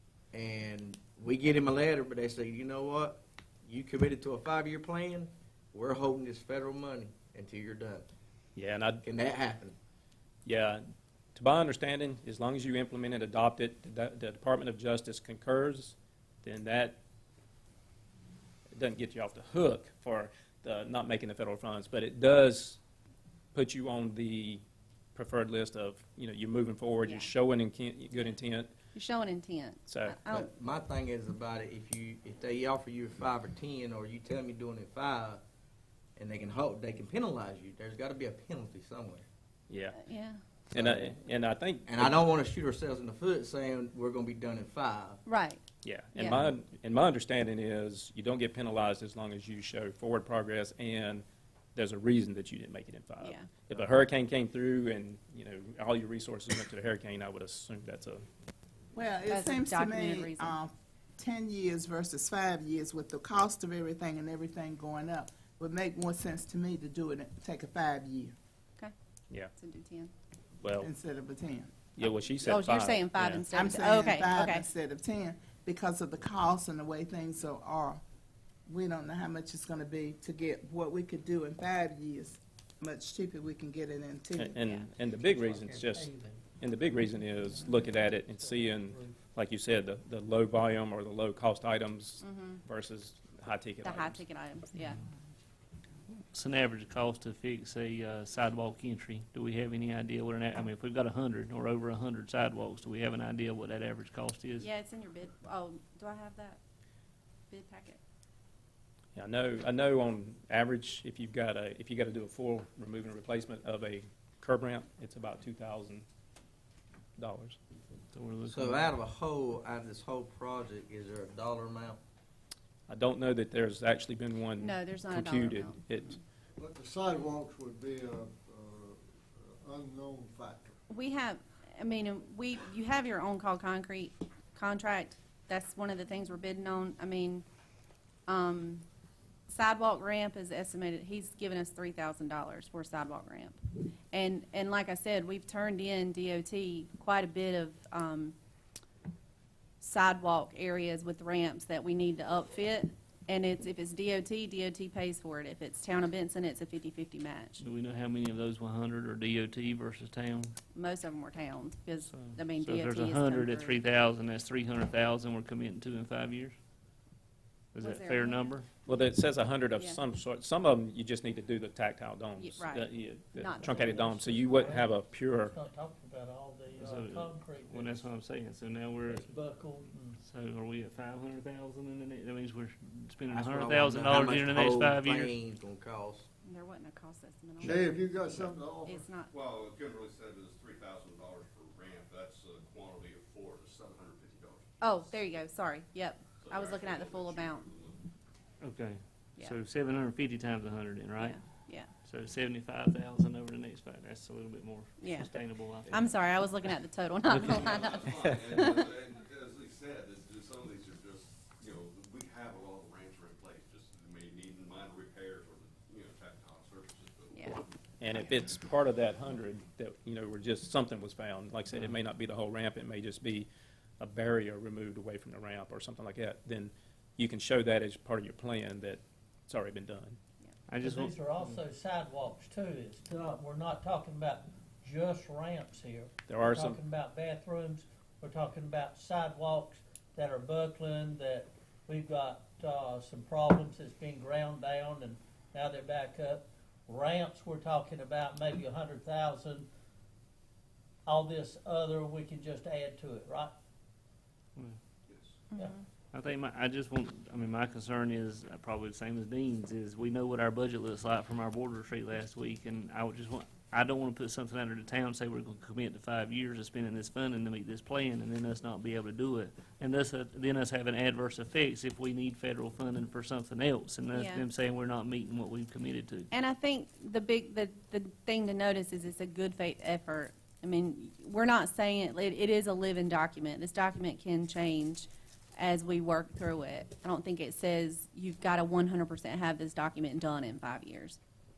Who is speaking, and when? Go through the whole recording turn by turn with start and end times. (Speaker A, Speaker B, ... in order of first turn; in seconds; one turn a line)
Speaker A: 0.3-8.1
Speaker B: 8.6-9.0
Speaker A: 9.0-9.8
Speaker B: 10.4-10.8
Speaker B: 11.3-17.0
Speaker B: 18.7-22.8
Speaker B: 23.5-24.6
Speaker B: 25.1-28.7
Speaker C: 27.0-27.3
Speaker C: 28.9-30.5
Speaker B: 29.9-30.2
Speaker A: 30.3-35.4
Speaker A: 36.2-39.3
Speaker B: 39.7-40.0
Speaker C: 39.9-40.4
Speaker B: 40.7-42.2
Speaker A: 40.7-41.2
Speaker A: 41.9-45.2
Speaker C: 45.3-45.6
Speaker B: 45.8-58.2
Speaker C: 46.1-46.5
Speaker C: 53.2-53.5
Speaker D: 58.9-68.3
Speaker C: 59.3-60.6
Speaker C: 69.5-70.1
Speaker B: 70.6-70.9
Speaker D: 70.8-71.8
Speaker B: 72.0-73.5
Speaker C: 72.4-74.7
Speaker D: 73.5-78.0
Speaker D: 78.7-84.6
Speaker B: 84.4-94.2
Speaker C: 84.6-84.9
Speaker E: 85.8-86.4
Speaker E: 87.6-89.2
Speaker C: 92.2-92.6
Speaker C: 93.8-95.0
Speaker F: 96.3-104.7
Speaker C: 104.6-106.6
Speaker C: 107.5-108.0
Speaker B: 109.2-116.0
Speaker B: 117.2-117.6
Speaker F: 118.1-118.9
Speaker A: 118.5-122.0
Speaker B: 122.9-126.2
Speaker C: 124.6-126.2
Speaker G: 126.6-130.8
Speaker C: 130.9-137.4
Speaker C: 138.3-138.8
Speaker C: 139.5-148.3
Speaker C: 149.8-157.6
Speaker F: 157.6-160.6
Speaker C: 160.7-163.8
Speaker F: 162.1-166.6
Speaker F: 167.7-168.7
Speaker C: 167.8-168.5
Speaker B: 168.9-175.6
Speaker C: 172.4-174.8
Speaker E: 174.6-178.0
Speaker F: 176.8-179.2
Speaker E: 179.1-180.2
Speaker F: 180.2-185.3
Speaker A: 183.3-186.3
Speaker C: 186.4-189.3
Speaker G: 187.6-189.0
Speaker H: 189.3-195.2
Speaker C: 194.8-197.7
Speaker H: 196.4-198.0
Speaker F: 198.6-201.4
Speaker C: 201.2-201.9
Speaker F: 202.0-206.1
Speaker C: 205.0-205.4
Speaker C: 205.9-208.9
Speaker H: 207.3-217.7
Speaker C: 217.3-217.6
Speaker B: 218.0-223.5
Speaker B: 224.0-230.2
Speaker F: 230.7-231.6
Speaker E: 230.8-249.7
Speaker B: 236.3-236.8
Speaker E: 251.1-253.5
Speaker H: 255.1-255.4
Speaker C: 255.5-255.9
Speaker F: 256.1-276.3
Speaker C: 274.1-274.4
Speaker C: 276.3-291.2